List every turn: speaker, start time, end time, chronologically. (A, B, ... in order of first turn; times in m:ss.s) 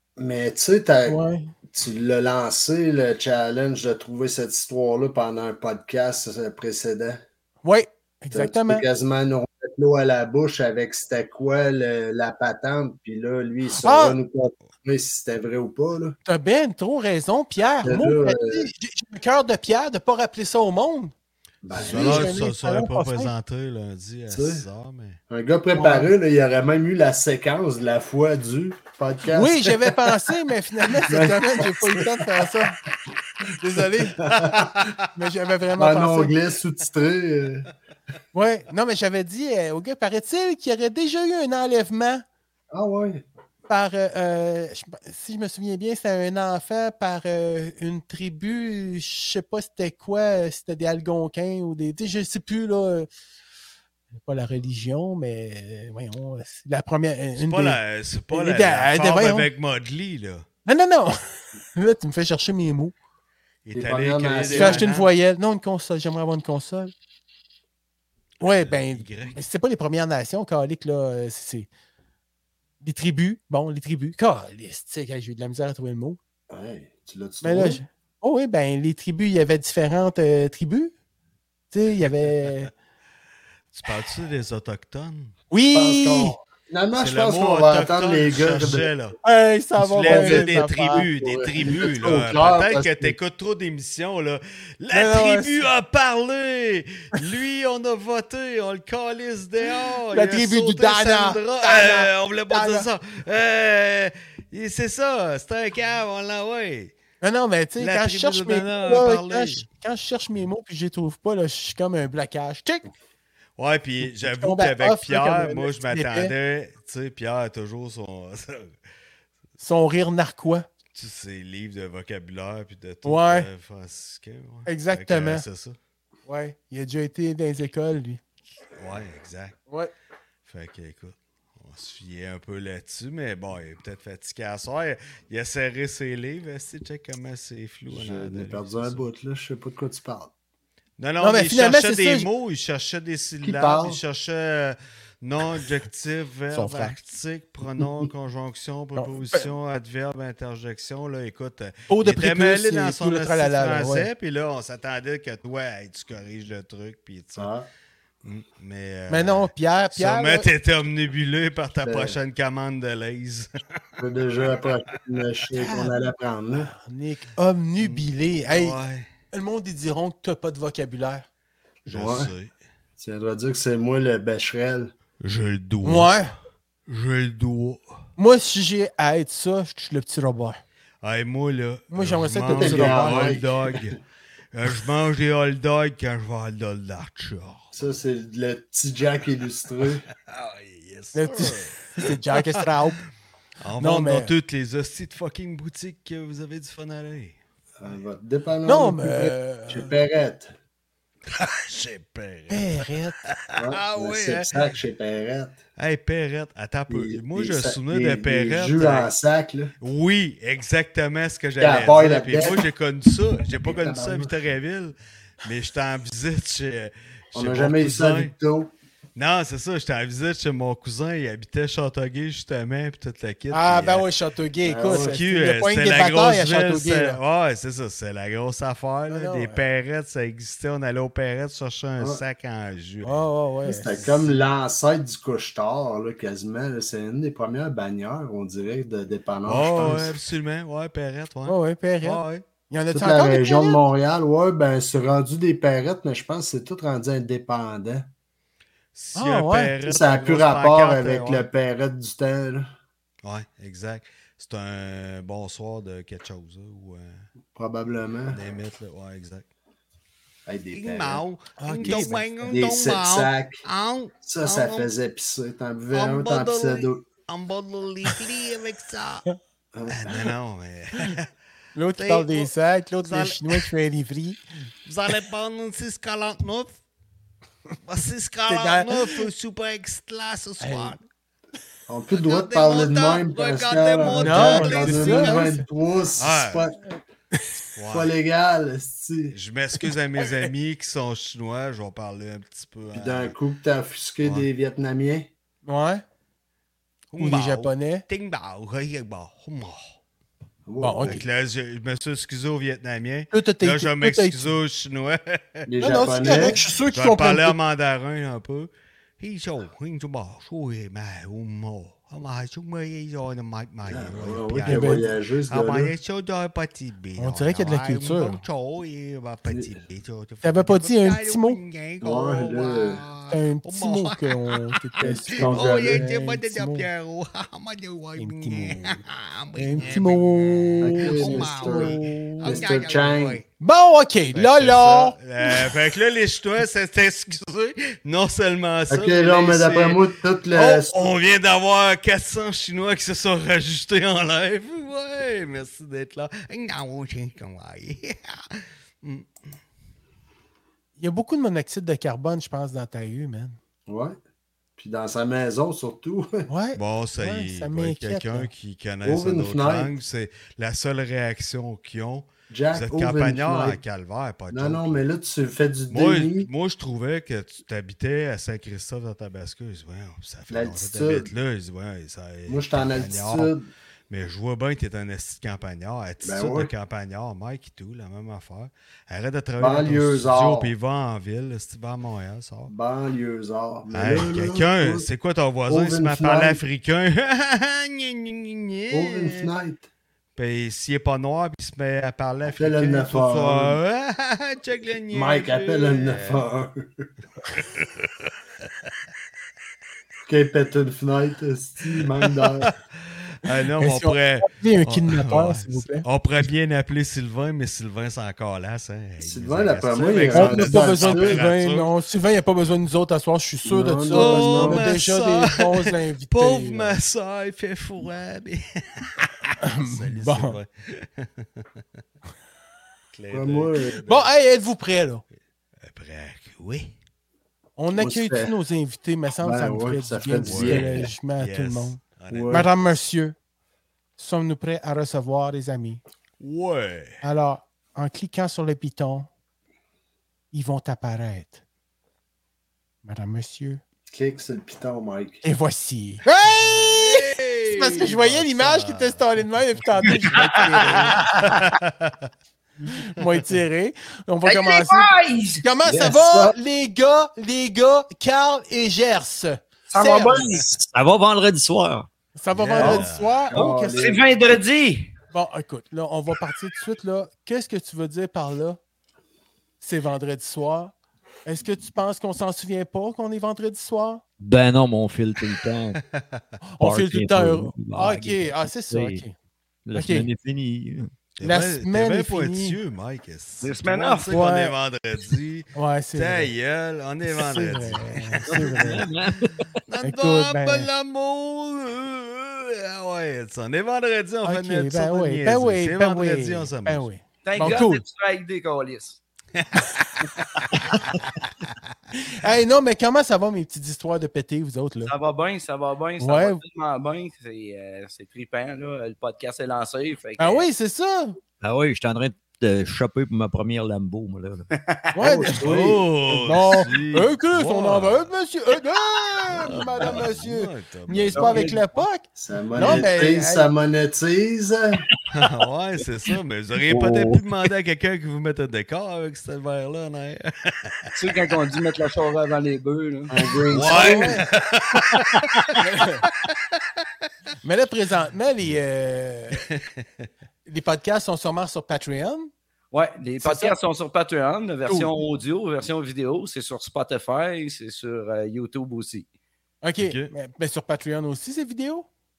0:00.2-0:01.2 A
0:01.1-0:01.5 B
0:01.7-0:07.2 A
0:07.6-0:08.8 B
0:08.3-0:16.2 A
0:13.8-0:14.2 B
0:16.3-0:21.1 B
0:17.8-0:18.7 A
0:21.6-0:22.3 A
0:21.7-0:25.2 C
0:21.7-0:23.3 B
0:24.3-0:24.6 A
0:25.3-0:30.3 A
0:25.7-0:26.1 B
0:29.3-0:32.8 B
0:30.9-0:32.5 A
0:33.6-0:34.2 B
0:34.2-0:34.7 A
0:34.2-0:35.0 C
0:35.1-0:36.3 B
0:35.8-0:37.7 A
0:38.3-0:42.2 B
0:42.7-0:43.2 A
0:43.7-0:53.1 B
0:54.2-0:57.8 B
0:57.4-1:00.4 C
0:58.3-0:59.5 B
1:00.6-1:01.2 B
1:01.7-1:02.9 B
1:03.6-1:05.1 C
1:03.7-1:04.9 A
1:04.5-1:06.9 B
1:08.4-1:11.7 B
1:08.4-1:09.4 C
1:12.8-1:16.2 B
1:16.5-1:17.8 A
1:17.4-1:20.9 B
1:21.7-1:22.7 B
1:23.7-1:25.3 C
1:25.5-1:26.4 B
1:25.7-1:28.9 A
1:27.0-1:29.2 C
1:29.2-1:31.1 B
1:29.8-1:47.0 C
1:30.1-1:33.2 A
1:34.9-1:35.6 B
1:40.1-1:42.8 B
1:47.2-1:52.8 B
1:47.8-1:49.6 C
1:53.6-1:58.8 C
1:54.0-1:56.3 B
1:59.6-2:00.6 B
2:00.9-2:05.8 C
2:03.0-2:03.5 B
2:04.7-2:05.4 B
2:06.3-2:08.2 B
2:08.8-2:09.6 C
2:10.4-2:19.0 C
2:17.9-2:20.3 A
2:21.0-2:37.5 C
2:21.2-2:22.3 B
2:23.4-2:24.0 A
2:26.5-2:26.9 B
2:29.0-2:29.5 B
2:31.9-2:34.1 B
2:37.4-2:37.7 A
2:38.2-2:43.5 C
2:39.1-2:40.5 B
2:41.8-2:42.2 A
2:44.0-2:46.7 A
2:45.6-2:45.9 C
2:46.5-2:48.8 B
2:47.8-2:49.1 C
2:49.3-2:51.2 B
2:51.8-2:52.3 A
2:51.9-2:52.5 C
2:53.0-2:54.9 A
2:55.2-2:56.1 C
2:55.8-2:56.3 B
2:56.9-2:57.8 C
2:58.2-3:00.6 B
3:01.0-3:04.0 C
3:01.9-3:03.4 B
3:02.5-3:03.9 A
3:04.5-3:07.7 C
3:07.7-3:10.0 A
3:10.3-3:12.6 C
3:11.1-3:13.0 B
3:13.6-3:17.4 C
3:13.8-3:14.3 B
3:17.8-3:20.5 A
3:18.6-3:19.9 B
3:21.3-3:22.8 C
3:22.5-3:23.2 B
3:23.6-3:24.6 C
3:23.6-3:25.6 A
3:25.8-3:29.1 C
3:26.9-3:29.7 A
3:29.8-3:38.3 C
3:31.6-3:32.7 A
3:33.5-3:34.3 A
3:37.3-3:38.7 A
3:39.2-3:44.0 C
3:43.5-3:47.2 B
3:44.6-3:45.2 A
3:44.9-3:53.1 C
3:49.1-3:49.6 B
3:53.0-3:53.9 B
3:53.6-4:00.1 A
3:59.5-4:02.4 C
3:59.8-4:00.0 B
4:01.5-4:03.8 B
4:02.9-4:08.1 A
4:08.9-4:11.5 C
4:09.1-4:09.7 B
4:09.8-4:12.7 A
4:13.2-4:17.3 C
4:17.5-4:18.4 A
4:18.3-4:19.5 C
4:20.5-4:21.2 A
4:20.7-4:24.9 C
4:21.6-4:22.3 B
4:21.8-4:23.6 A
4:24.2-4:27.0 A
4:25.9-4:29.3 C
4:29.7-4:30.0 A
4:29.9-4:31.3 C
4:31.7-4:34.4 B
4:32.0-4:32.5 C
4:33.0-4:33.6 C
4:34.8-4:36.8 C
4:37.8-4:41.0 C
4:38.5-4:39.2 B
4:40.6-4:40.9 B
4:41.9-4:46.8 A
4:42.1-4:45.5 C
4:44.1-4:45.6 B
4:46.2-4:46.7 C
4:47.8-4:48.1 C
4:47.9-4:49.4 A
4:49.3-4:53.3 C
4:50.2-4:50.5 B
4:52.9-4:55.3 A
4:54.2-4:54.5 C
4:55.6-4:56.0 B
4:57.1-5:00.0 C
4:57.2-4:58.0 B
5:00.6-5:01.2 A
5:00.8-5:01.2 B
5:01.0-5:24.6 C
5:03.3-5:04.5 B
5:05.7-5:06.6 A
5:05.8-5:07.6 B
5:13.9-5:15.9 A
5:14.7-5:15.1 B
5:17.2-5:18.4 B
5:20.4-5:21.6 B
5:22.0-5:23.0 A
5:23.3-5:26.9 B
5:25.0-5:26.1 A
5:25.4-5:33.4 C
5:28.2-5:29.0 B
5:29.5-5:32.6 B
5:30.8-5:33.4 A
5:33.6-5:35.7 B
5:34.3-5:40.0 C
5:38.9-5:41.1 A
5:40.5-5:49.3 C
5:51.0-5:53.6 B
5:53.9-5:54.2 A
5:54.8-5:56.5 A
5:56.5-5:58.5 B
5:56.8-6:05.0 C
5:59.0-5:59.9 A
6:02.5-6:03.8 A
6:04.5-6:06.5 A
6:05.9-6:13.5 C
6:10.5-6:11.3 A
6:12.5-6:13.7 A
6:14.1-6:22.7 C
6:16.2-6:16.7 A
6:19.6-6:20.7 A
6:22.7-6:25.0 A
6:23.9-6:29.5 C
6:25.7-6:26.6 A
6:28.9-6:29.9 A
6:30.4-6:36.4 C
6:32.5-6:33.8 A
6:35.1-6:37.0 A
6:37.5-6:38.7 C
6:40.2-6:42.7 A
6:42.2-6:42.7 C
6:43.4-6:51.9 C
6:43.8-6:46.0 B
6:49.2-6:51.4 A
6:50.3-6:57.0 B
6:53.6-6:54.9 A
6:54.1-7:01.6 C
6:59.6-7:00.5 B
7:03.1-7:04.3 C
7:03.3-7:04.0 A
7:04.0-7:05.2 B
7:05.8-7:06.9 C
7:07.8-7:13.3 B
7:07.9-7:08.5 A
7:09.4-7:11.1 A
7:10.4-7:12.8 C
7:12.3-7:12.7 A
7:14.2-7:16.0 B
7:16.4-7:17.2 C
7:17.2-7:19.3 B
7:20.5-7:21.6 B
7:23.0-7:23.8 B
7:24.1-7:25.4 A
7:25.4-7:31.2 B
7:26.4-7:29.2 C
7:30.8-7:31.6 D
7:30.8-7:32.2 C
7:32.9-7:40.5 B
7:34.4-7:35.6 D
7:39.9-7:40.7 D
7:40.6-7:42.1 E
7:42.4-7:44.0 B
7:42.5-7:43.4 C
7:43.5-7:44.2 A
7:44.0-7:45.1 D
7:45.3-7:48.8 B
7:49.8-7:50.9 B
7:51.4-7:54.2 B
7:54.4-7:56.0 E
7:56.2-7:56.4 C
7:56.7-7:59.3 B
7:56.8-7:59.2 E
7:59.8-8:01.1 E
7:59.9-8:00.3 B
8:01.4-8:09.0 C
8:01.4-8:02.8 B
8:03.6-8:04.3 D
8:04.3-8:04.7 B
8:05.7-8:06.5 B
8:07.3-8:09.0 B
8:08.5-8:09.8 E
8:09.9-8:17.1 C
8:10.0-8:10.9 B
8:14.4-8:18.0 B
8:17.4-8:19.2 D
8:19.5-8:21.7 C
8:22.2-8:25.1 B
8:25.0-8:30.7 D
8:26.2-8:26.6 B
8:30.4-8:31.4 B
8:31.6-8:34.7 E
8:34.7-8:35.5 D
8:35.1-8:35.7 B
8:35.2-8:36.0 A
8:35.6-8:38.3 C
8:36.3-8:43.7 B
8:39.5-8:41.6 C
8:41.3-8:42.0 D
8:42.3-8:45.0 A
8:45.3-8:51.1 C
8:46.9-8:47.3 D
8:51.1-8:53.3 D
8:53.3-8:54.4 A
8:53.7-8:56.5 C
8:53.9-8:54.4 B
8:55.8-8:56.2 B
8:57.6-8:59.6 B
9:00.6-9:02.5 B
9:02.9-9:09.2 D
9:03.4-9:03.8 B
9:09.8-9:12.0 B
9:10.0-9:10.3 C